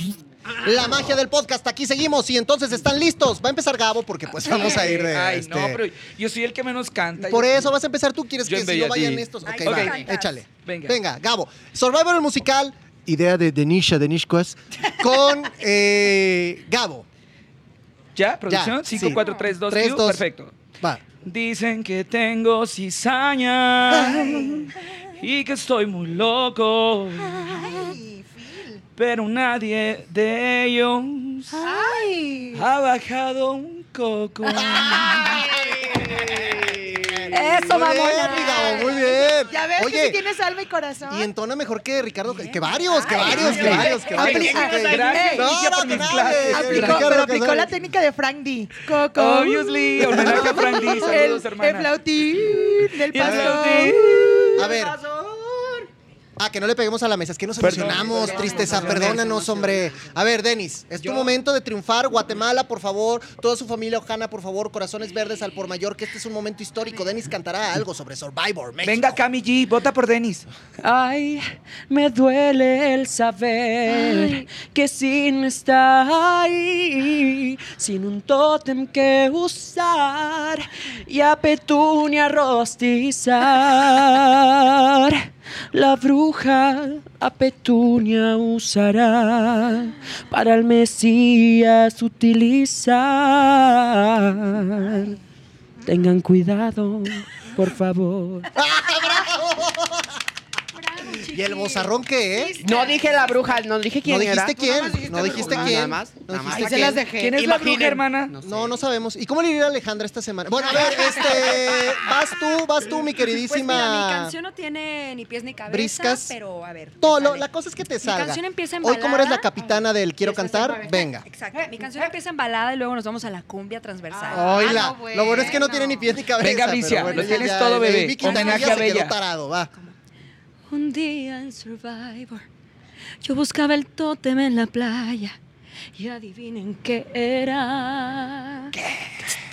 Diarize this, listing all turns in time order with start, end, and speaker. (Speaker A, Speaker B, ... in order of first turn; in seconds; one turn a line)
Speaker A: 0.5-5.8
Speaker B: 4.3-7.7
Speaker A: 7.2-17.1
Speaker B: 8.4-10.1
Speaker C: 9.4-10.4
Speaker B: 10.6-11.0
Speaker B: 18.1-20.5
Speaker A: 18.5-20.2
Speaker C: 19.0-19.5
Speaker B: 21.2-28.0
Speaker A: 23.9-24.6
Speaker D: 24.1-24.7
Speaker D: 27.2-28.8
Speaker B: 29.0-31.6
Speaker D: 31.6-32.6
Speaker B: 32.5-35.1
Speaker C: 34.4-35.4
Speaker A: 34.5-40.2
Speaker E: 35.0-37.3
Speaker C: 37.3-39.1
Speaker D: 38.0-38.9
Speaker D: 39.5-41.3
Speaker A: 41.1-47.7
Speaker D: 42.3-45.6
Speaker E: 43.0-45.4
Speaker B: 43.6-47.3
Speaker D: 46.1-54.6
Speaker B: 49.1-54.7
Speaker A: 50.2-50.5
Speaker A: 53.2-53.6
Speaker E: 54.5-55.9
Speaker A: 54.6-55.0
Speaker A: 56.4-69.2
Speaker B: 57.6-59.2
Speaker E: 57.6-60.1
Speaker E: 61.0-61.3
Speaker B: 68.8-70.5
Speaker E: 70.8-95.2
Speaker C: 73.9-74.5
Speaker E: 95.8-98.5
Speaker A: 98.5-100.2
Speaker C: 100.9-101.9
Speaker A: 101.2-102.6
Speaker D: 102.3-103.4
Speaker E: 102.6-108.8
Speaker C: 102.7-103.1
Speaker A: 104.0-107.0
Speaker D: 104.6-105.9
Speaker B: 105.2-105.5
Speaker D: 106.5-107.4
Speaker B: 106.8-108.3
Speaker A: 108.4-114.3
Speaker C: 113.3-117.5
Speaker A: 115.7-116.3
Speaker A: 117.0-121.2
Speaker C: 118.0-119.5
Speaker E: 120.2-122.2
Speaker C: 121.2-125.9
Speaker D: 124.1-126.1
Speaker A: 124.3-129.7
Speaker B: 126.4-129.2
Speaker C: 127.1-127.6
Speaker C: 128.2-128.9
Speaker C: 130.7-132.4
Speaker C: 133.2-135.4
Speaker C: 135.9-138.7